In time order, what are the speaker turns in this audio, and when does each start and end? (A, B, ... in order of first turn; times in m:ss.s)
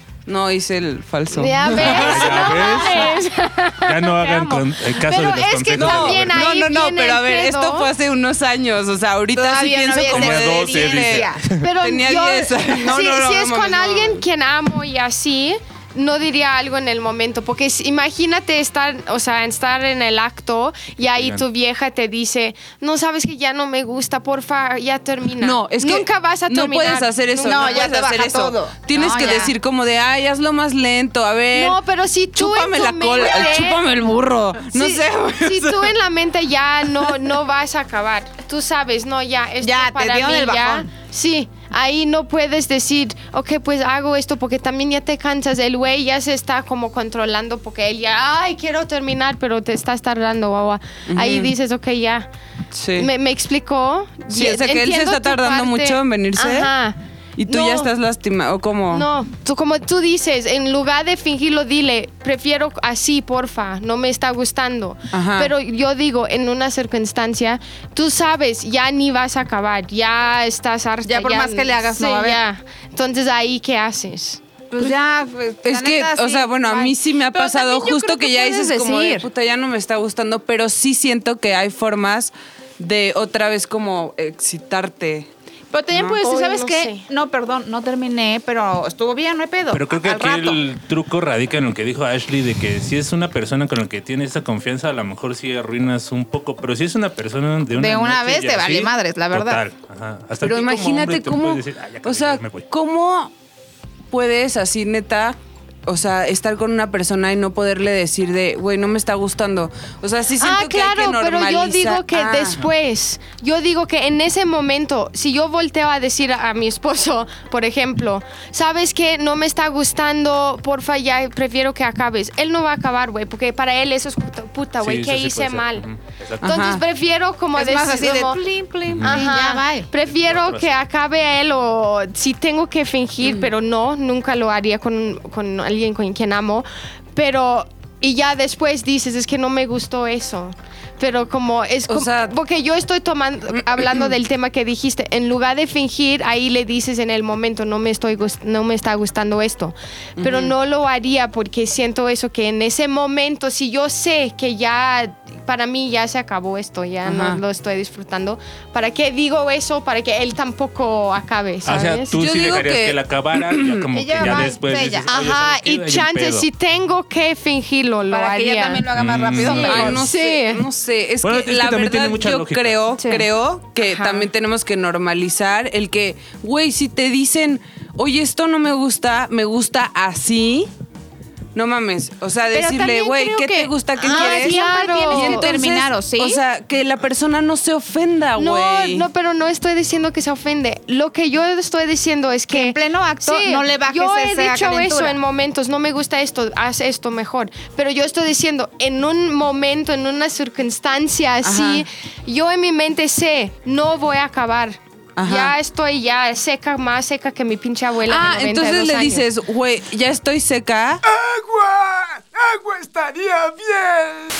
0:00.3-0:02.7 A
0:01.3-0:07.9 B
0:01.8-0:03.2 C
0:03.8-0:06.4 C
0:05.7-0:14.2 A
0:09.3-0:11.4 D
0:10.0-0:11.6 C
0:11.6-0:27.9 B
0:21.1-0:21.4 C
0:25.4-0:31.8 A
0:27.4-0:29.5 D
0:29.2-0:29.4 B
0:31.5-0:33.8 B
0:32.3-0:35.9 A
0:34.7-0:52.3 B
0:39.6-0:40.9 D
0:51.1-0:51.5 A
0:52.7-0:53.1 A
0:53.0-0:57.0 B
0:54.3-0:56.7 A
0:57.4-0:59.1 A
0:57.5-0:57.9 B
0:58.9-1:14.4 B
1:05.1-1:05.5 A
1:11.0-1:12.4 D
1:14.7-1:19.3 D
1:15.6-1:25.3 A
1:25.7-1:30.6 D
1:25.9-1:26.2 A
1:26.2-1:27.0 B
1:29.7-1:42.7 C
1:37.7-1:39.6 D
1:40.4-1:43.3 A
1:44.1-1:52.6 A
1:50.4-2:05.9 B
2:04.8-2:06.7 C
2:06.4-2:06.8 A
2:06.4-2:08.4 B
2:07.5-2:09.9 D
2:08.9-2:09.2 C
2:09.0-2:42.2 B
2:10.1-2:10.7 C
2:13.2-2:13.5 A
2:21.9-2:22.3 A
2:23.7-2:24.1 A
2:30.2-2:30.5 A
2:37.0-2:37.4 A
2:41.6-2:46.4 C
2:42.1-2:44.5 A
2:43.9-2:45.1 D
2:45.1-2:48.9 B
2:48.1-2:50.1 D
2:48.9-2:50.0 C
2:49.4-3:00.7 A
2:49.7-2:50.6 B
2:51.2-2:52.8 C
2:53.8-2:54.3 B
3:01.5-3:09.1 A
3:02.5-3:06.4 D
3:04.0-3:05.5 B
3:08.4-3:29.2 B
3:12.5-3:15.2 D
3:21.4-3:21.8 A
3:25.2-3:25.5 A
3:28.1-3:31.0 A
3:31.2-3:34.2 E